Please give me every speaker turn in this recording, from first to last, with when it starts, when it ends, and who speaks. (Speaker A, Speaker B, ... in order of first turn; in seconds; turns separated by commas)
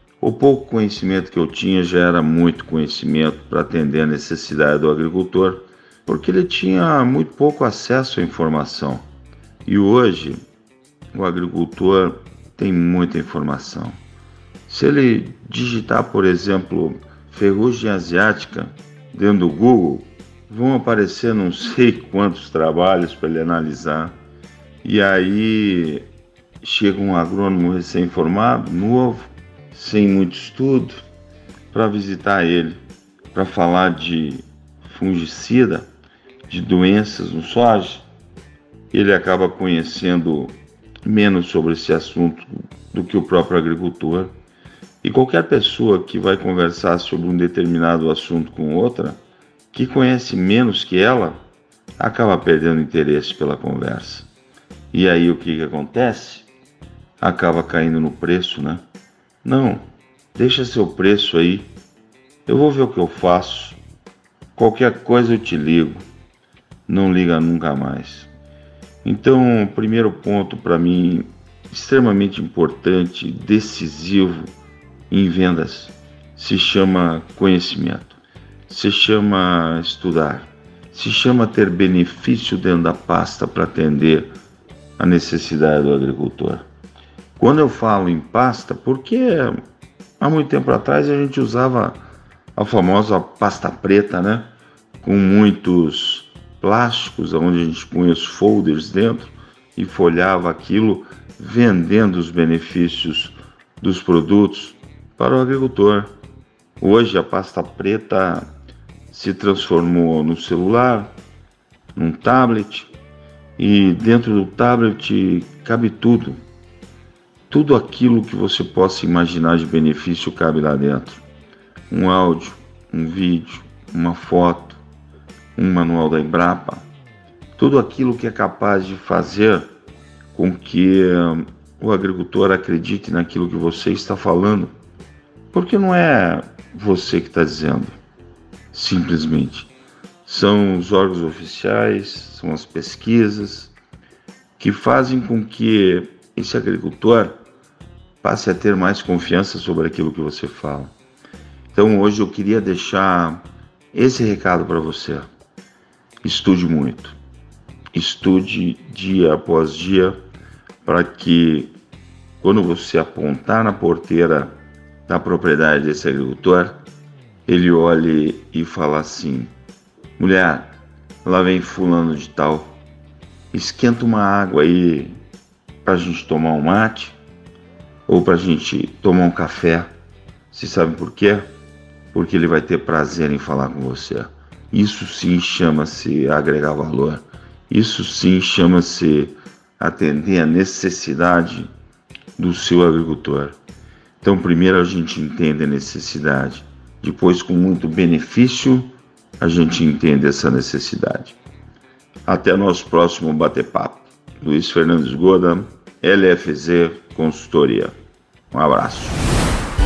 Speaker A: 0.2-9.1, Speaker A: 9.7-10.4, Speaker A: 11.1-14.0, Speaker A: 14.7-24.2, Speaker A: 24.8-26.1, Speaker A: 26.6-31.0, Speaker A: 31.7-32.8, Speaker A: 33.3-35.9, Speaker A: 36.5-38.0, Speaker A: 38.9-44.3, Speaker A: 45.0-49.2, Speaker A: 49.7-51.4, Speaker A: 52.0-54.3, Speaker A: 54.9-56.5, Speaker A: 57.2-58.9, Speaker A: 59.4-61.7, Speaker A: 62.5-63.8, Speaker A: 64.6-66.1, Speaker A: 66.9-68.3, Speaker A: 69.0-74.5, Speaker A: 75.1-84.3, Speaker A: 85.0-86.7, Speaker A: 87.4-89.6, Speaker A: 90.2-92.0, Speaker A: 92.6-106.1, Speaker A: 106.8-108.5, Speaker A: 109.1-111.2, Speaker A: 112.0-112.9, Speaker A: 113.6-116.4, Speaker A: 117.5-121.2, Speaker A: 121.9-124.8, Speaker A: 125.6-126.9, Speaker A: 127.6-129.7, Speaker A: 130.3-134.8, Speaker A: 135.5-138.0, Speaker A: 138.7-139.7, Speaker A: 140.2-143.7, Speaker A: 144.6-147.4, Speaker A: 148.2-150.9, Speaker A: 151.7-155.3, Speaker A: 156.2-157.2, Speaker A: 157.9-160.2, Speaker A: 160.8-161.7, Speaker A: 162.4-166.8, Speaker A: 167.5-169.5, Speaker A: 170.2-172.8, Speaker A: 173.5-175.2, Speaker A: 175.8-177.2, Speaker A: 178.1-179.9, Speaker A: 180.5-181.5, Speaker A: 182.1-191.7, Speaker A: 192.4-193.6, Speaker A: 194.2-201.4, Speaker A: 202.3-207.9, Speaker A: 208.5-209.2